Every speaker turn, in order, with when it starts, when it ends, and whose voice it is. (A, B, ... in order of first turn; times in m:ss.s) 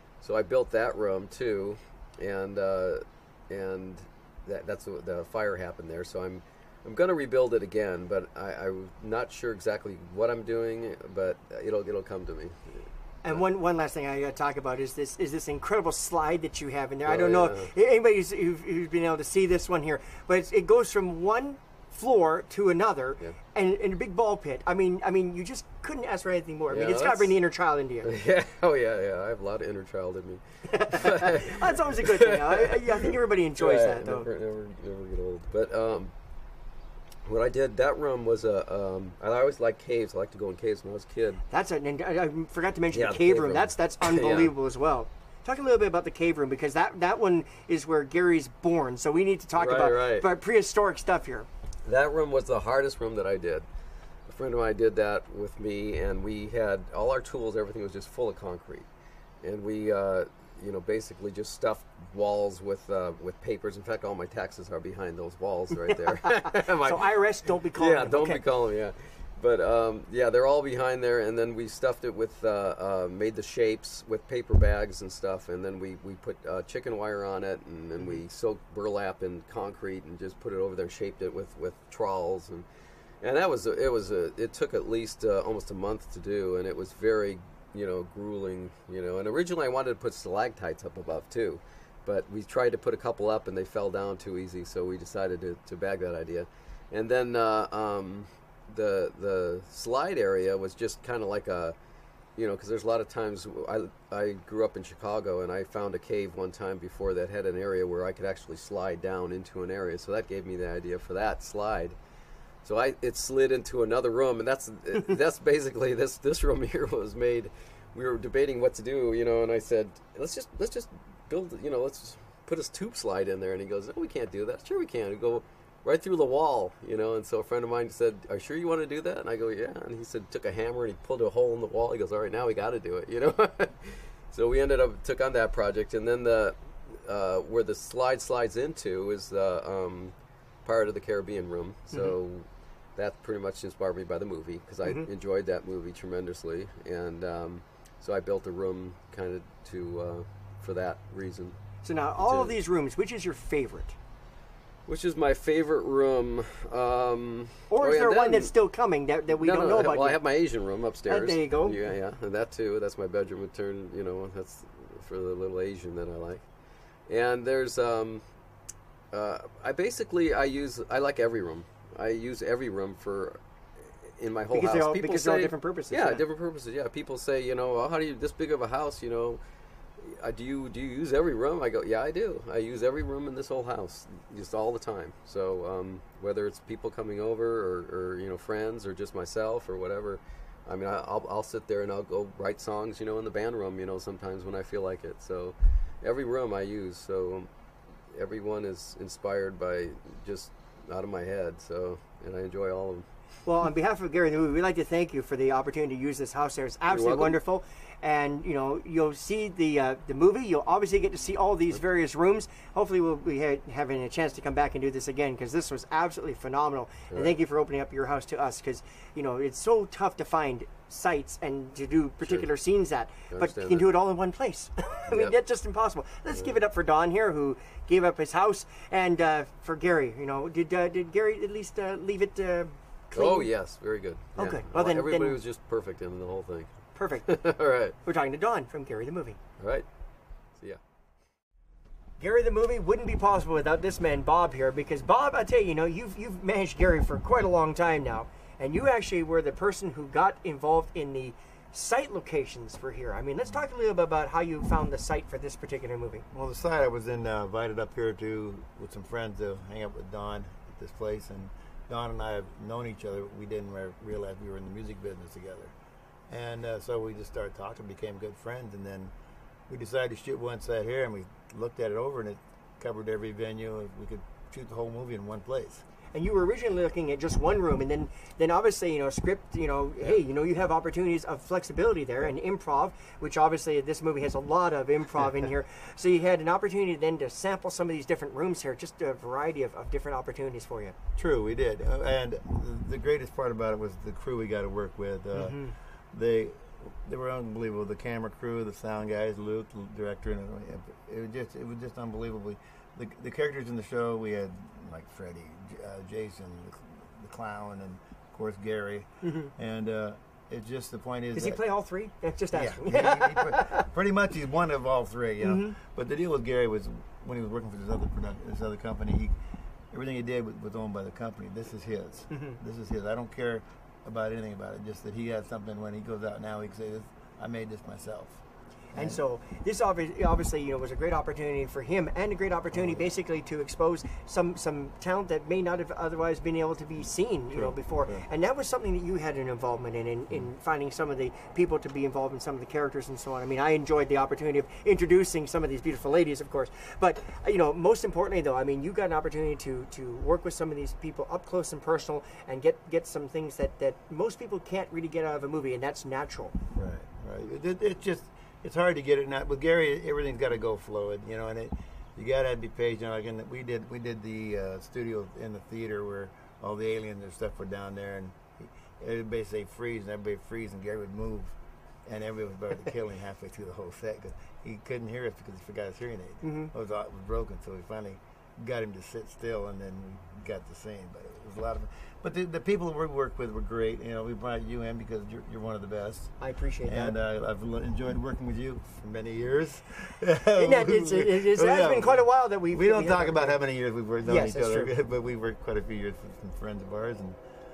0:00.2-0:13.4 A
0:13.2-0:28.1 B
0:17.0-0:17.7 A
0:26.7-0:27.4 A
0:28.0-0:36.1 A
0:30.7-0:34.3 B
0:37.3-0:41.4 A
0:41.5-0:51.5 B
0:42.9-0:44.6 A
0:49.6-0:50.3 A
0:51.9-0:53.7 A
0:54.3-0:58.9 A
0:59.4-1:07.1 A
1:06.2-1:08.4 B
1:07.7-1:22.6 A
1:23.2-1:41.8 A
1:42.4-1:52.0 A
1:52.6-2:20.1 A
2:20.6-2:31.6 A
2:21.9-2:22.2 B
2:24.8-2:25.1 B
2:31.8-2:34.0 B
2:32.2-2:32.6 A
2:34.9-2:38.5 A
2:37.7-2:40.2 B
2:39.3-2:46.4 A
2:41.1-2:41.8 B
2:47.1-2:48.2 A
2:49.1-2:53.4 A
2:54.2-2:59.4 A
2:54.5-2:56.2 B
3:00.0-3:17.5 A
3:18.1-3:23.1 A
3:23.4-3:53.5 B
3:26.9-3:27.4 A
3:37.1-3:37.4 A
3:42.2-3:42.5 A
3:43.3-3:44.0 A
3:45.1-3:45.4 A
3:46.3-3:46.6 A
3:53.1-3:56.7 A
3:54.4-3:55.4 B
3:57.0-3:57.3 B
3:57.3-3:58.0 A
3:58.0-3:59.4 B
3:59.6-3:59.9 A
4:02.2-4:16.2 B
4:16.3-4:25.8 C
4:26.3-4:29.1 C
4:29.7-4:35.8 C
4:36.1-4:51.0 B
4:51.2-5:11.6 C
4:55.3-4:55.8 B
5:09.2-5:09.5 B
5:11.4-5:13.8 B
5:12.5-5:19.4 C
5:15.4-5:15.8 B
5:19.9-5:28.4 C
5:22.3-5:22.6 B
5:28.9-5:56.6 B
5:29.0-5:29.2 C
5:32.7-5:33.1 C
5:37.5-5:38.3 C
5:56.7-6:26.3 C
6:16.4-6:16.7 B
6:26.4-6:27.2 B
6:26.8-6:37.4 C
6:30.6-6:33.6 B
6:34.2-6:34.9 B